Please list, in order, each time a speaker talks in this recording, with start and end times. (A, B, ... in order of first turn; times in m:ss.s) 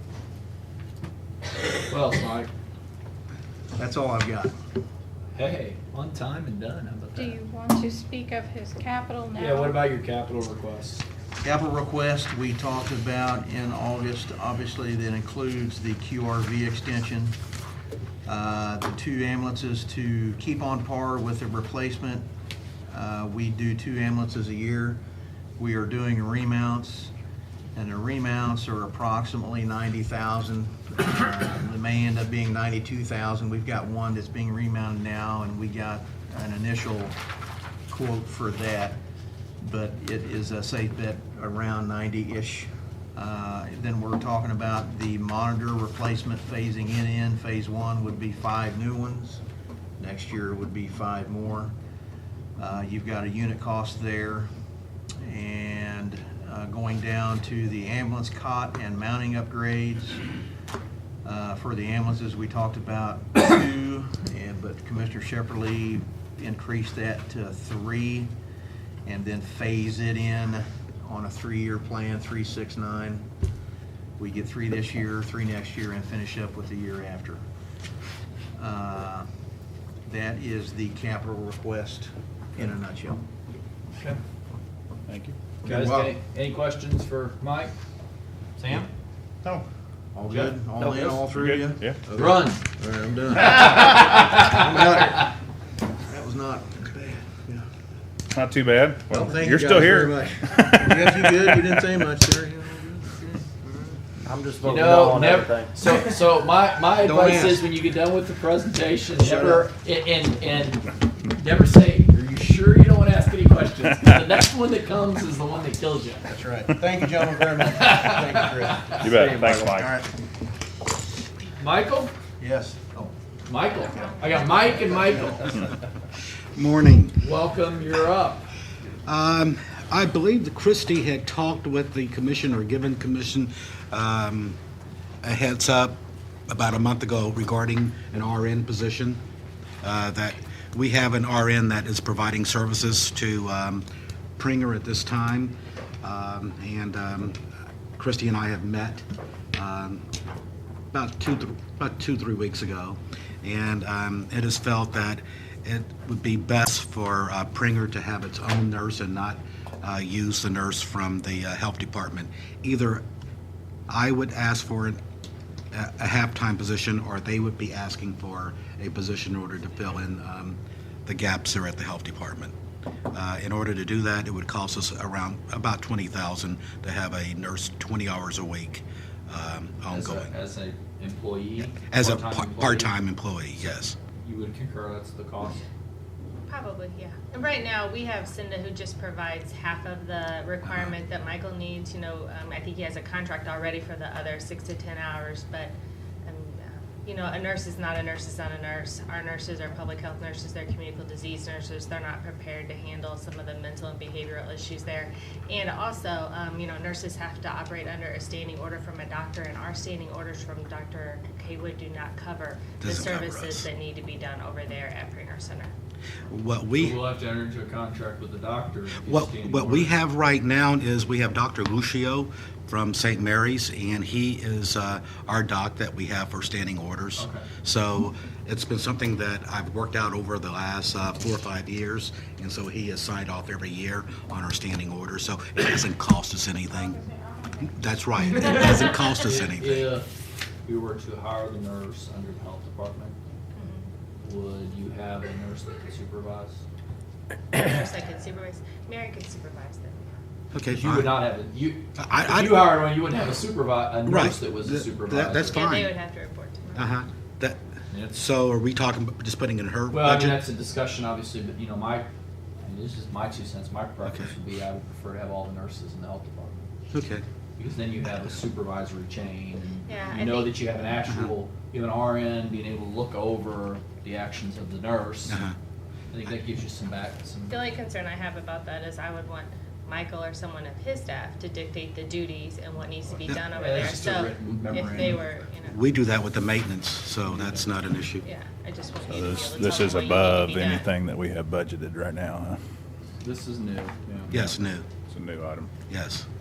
0:01.9-0:02.5 A
0:03.8-0:04.5 B
0:05.3-0:07.4 A
0:07.1-0:09.8 C
0:09.3-0:11.0 A
0:11.4-0:17.3 B
0:18.2-0:22.2 B
0:22.9-0:25.0 B
0:25.6-0:27.1 B
0:27.7-0:37.1 B
0:37.9-0:39.0 B
0:39.6-0:49.4 B
0:50.0-0:51.7 B
0:52.6-0:54.5 B
0:55.2-1:00.2 B
1:01.2-1:08.3 B
1:09.0-1:13.3 B
1:14.2-1:17.4 B
1:18.6-1:19.3 B
1:20.0-1:23.2 B
1:25.1-1:25.3 D
1:25.6-1:26.2 B
1:25.6-1:27.7 A
1:28.6-1:28.9 A
1:30.1-1:35.3 B
1:31.0-1:32.0 D
1:32.1-1:32.6 A
1:33.6-1:34.6 A
1:36.1-1:37.6 B
1:38.3-1:40.8 D
1:39.1-1:43.7 B
1:44.2-1:45.7 E
1:44.6-1:56.2 A
1:47.0-1:47.6 B
1:49.1-1:49.6 B
1:56.3-2:00.1 B
1:57.8-1:58.2 A
1:59.0-1:59.9 D
1:59.0-1:59.6 E
2:01.6-2:02.1 A
2:02.4-2:03.1 B
2:03.4-2:05.7 A
2:06.5-2:07.2 F
2:07.2-2:08.5 A
2:09.0-2:14.6 F
2:15.2-2:19.2 F
2:19.8-2:23.8 F
2:24.4-2:27.4 F
2:28.0-2:30.0 F
2:30.9-2:43.0 F
2:43.9-2:45.0 F
2:45.7-2:52.5 F
2:53.1-3:00.3 F
2:59.9-3:02.9 A
3:01.9-3:03.9 F
3:03.6-3:05.6 A
3:06.5-3:15.7 G
3:16.2-3:35.7 G
3:32.8-3:33.7 F
3:36.3-3:37.0 F
3:36.8-3:40.0 A
3:39.0-3:57.0 F
3:47.2-3:47.4 A
3:57.6-3:59.9 F
3:59.2-4:00.0 A
4:00.6-4:03.1 A
4:03.6-4:03.9 G
4:04.2-4:06.6 A
4:07.5-4:10.2 G
4:10.5-4:11.2 F
4:10.6-4:15.6 A
4:12.0-4:12.7 F
4:14.0-4:16.0 F
4:15.4-4:16.9 G
4:16.7-4:17.6 F
4:17.9-4:18.2 A
4:18.1-4:20.4 F
4:19.9-4:22.1 A
4:22.6-4:26.6 A
4:26.9-4:27.2 F
4:27.6-4:35.4 A
4:29.8-4:30.5 G
4:35.3-4:35.5 F
4:36.1-4:37.6 A
4:37.5-4:45.8 G
4:43.5-4:45.2 A
4:45.7-4:48.2 F
4:47.3-4:47.6 A
4:48.2-4:50.8 G
4:49.0-4:52.6 D
4:53.2-4:54.4 A
4:54.3-4:54.9 F
4:55.1-4:55.7 D
4:55.9-4:56.2 F